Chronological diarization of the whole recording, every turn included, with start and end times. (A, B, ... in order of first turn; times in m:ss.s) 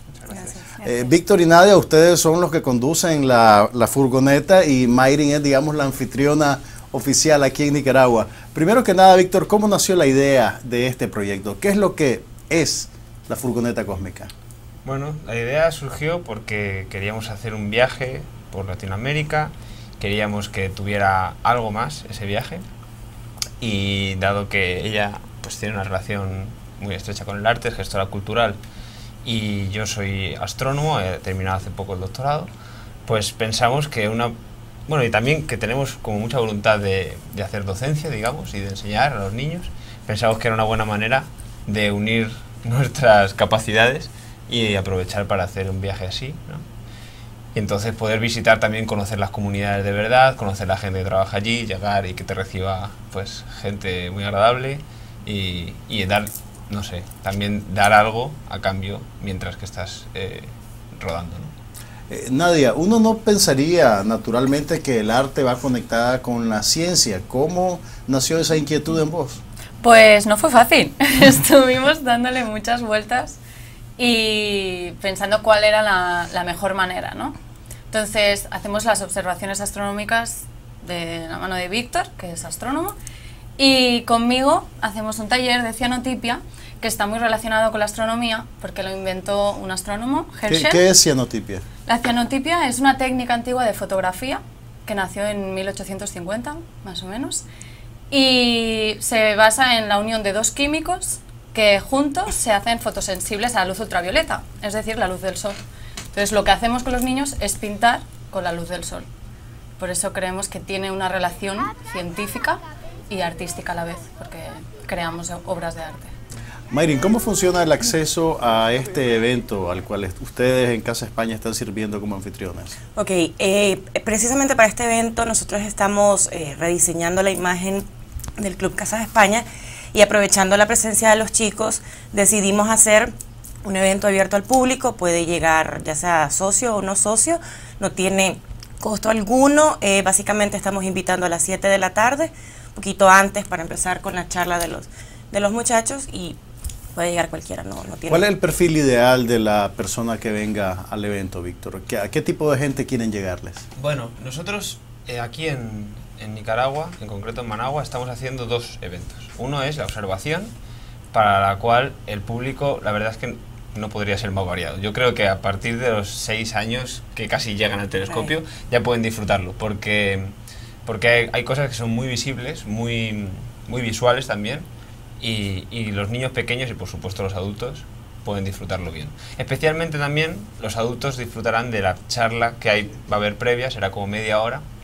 0:00.2-0:00.5 A
0:00.3-0:00.8 B
0:00.8-0:14.3 C
0:14.8-0:22.6 A
0:23.6-0:28.6 A
0:29.2-0:32.5 A
0:33.0-0:34.3 A
0:34.9-0:46.6 A
0:47.5-1:01.5 A
1:02.1-1:09.4 C
1:09.8-1:13.4 B
1:14.0-1:17.3 B
1:17.9-1:22.9 B
1:23.6-1:30.8 B
1:30.4-1:31.6 C
1:31.9-1:37.4 B
1:38.1-1:45.6 B
1:46.1-1:49.0 B
1:49.8-1:56.1 B
1:56.7-2:02.8 C
2:02.9-2:07.8 D
2:08.4-2:13.1 D
2:13.6-2:26.4 D
2:26.9-2:28.2 D
2:28.1-2:33.6 C
2:33.8-2:40.5 A
2:41.1-2:50.3 A
2:48.1-2:48.4 D
2:50.8-2:54.7 A
2:55.2-3:04.6 A